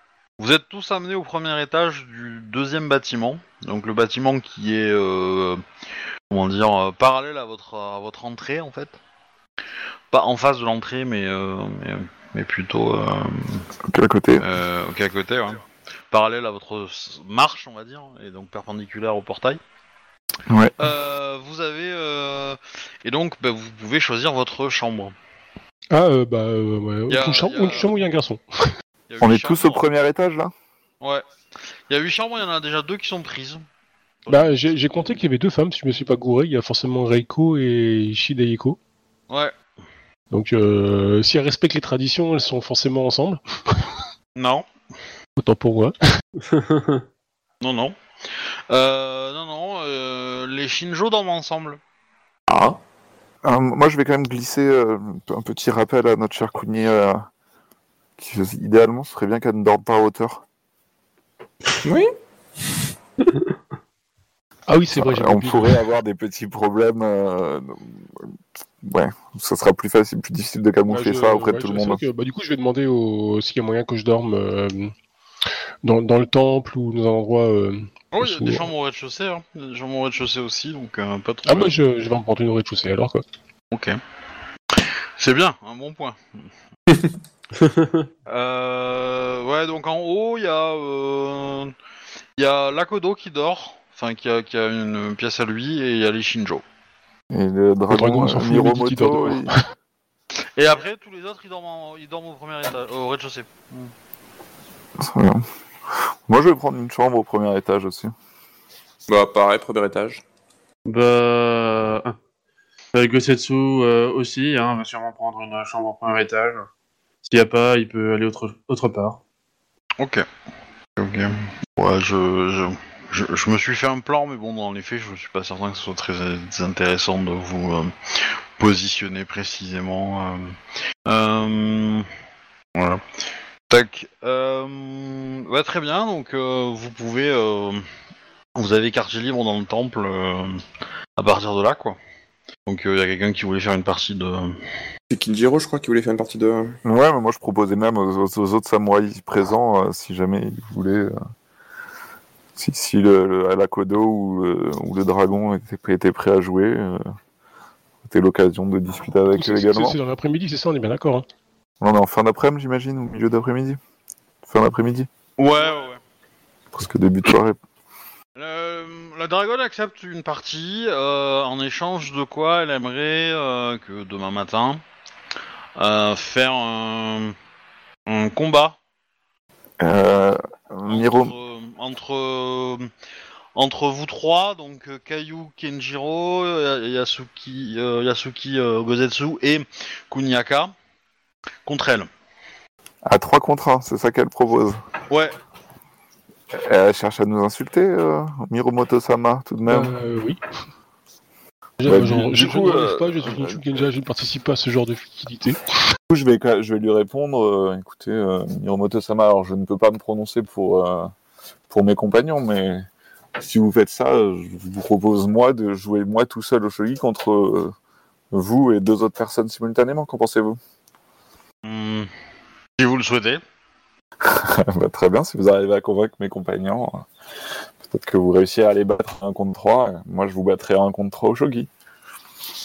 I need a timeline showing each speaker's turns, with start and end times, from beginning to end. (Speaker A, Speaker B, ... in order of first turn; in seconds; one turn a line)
Speaker A: 0.4-5.6
Speaker A: 6.3-9.0
Speaker A: 10.1-13.7
Speaker B: 13.9-14.4
Speaker A: 14.4-19.6
Speaker B: 20.5-20.8
Speaker A: 20.8-25.1
Speaker C: 25.9-28.7
Speaker A: 27.1-27.9
Speaker A: 29.1-29.8
Speaker B: 29.2-30.5
Speaker A: 31.9-33.6
Speaker A: 34.3-34.5
Speaker C: 34.3-38.8
Speaker C: 40.3-43.8
Speaker A: 44.4-44.7
Speaker C: 45.4-46.0
Speaker D: 46.5-47.0
Speaker A: 47.6-51.8
Speaker E: 52.5-52.8
Speaker B: 53.4-57.3
Speaker B: 58.2-60.4
Speaker E: 61.8-62.1
Speaker C: 64.7-65.8
Speaker B: 64.9-68.3
Speaker B: 68.8-72.0
Speaker C: 70.9-74.9
Speaker C: 75.8-78.7
Speaker A: 78.1-81.8
Speaker C: 81.5-83.2
Speaker A: 83.7-84.0
Speaker A: 84.7-86.5
Speaker D: 87.6-88.1
Speaker A: 88.3-91.7
Speaker A: 92.4-96.6
Speaker B: 97.3-99.6
Speaker C: 97.9-99.6
Speaker A: 100.6-103.9
Speaker B: 105.0-108.1
Speaker E: 109.1-110.2
Speaker D: 110.9-112.2
Speaker D: 112.9-116.7
Speaker D: 117.2-119.2
Speaker A: 120.0-120.2
Speaker A: 121.0-132.1
Speaker A: 132.8-133.0
Speaker A: 133.7-137.8
Speaker A: 138.6-140.6
Speaker A: 141.2-142.0
Speaker A: 142.7-144.6
Speaker E: 145.1-146.8
Speaker B: 146.8-151.2
Speaker B: 152.6-157.0
Speaker B: 158.0-160.0
Speaker C: 159.3-161.3
Speaker B: 161.8-163.8
Speaker B: 164.4-165.1
Speaker A: 165.4-166.0
Speaker B: 166.7-167.6
Speaker A: 168.4-174.8
Speaker A: 175.8-177.3
Speaker A: 178.1-178.8
Speaker B: 179.8-181.3
Speaker A: 180.9-182.9
Speaker A: 183.6-190.7
Speaker A: 191.7-192.1
Speaker B: 193.1-194.8
Speaker A: 195.1-195.4
Speaker B: 196.5-200.0
Speaker C: 199.7-200.4
Speaker C: 201.8-206.0
Speaker B: 201.8-203.6
Speaker B: 206.1-211.1
Speaker B: 211.7-217.8
Speaker B: 218.3-220.6
Speaker A: 221.6-222.1
Speaker A: 222.8-223.4
Speaker B: 224.2-227.1
Speaker B: 227.8-231.7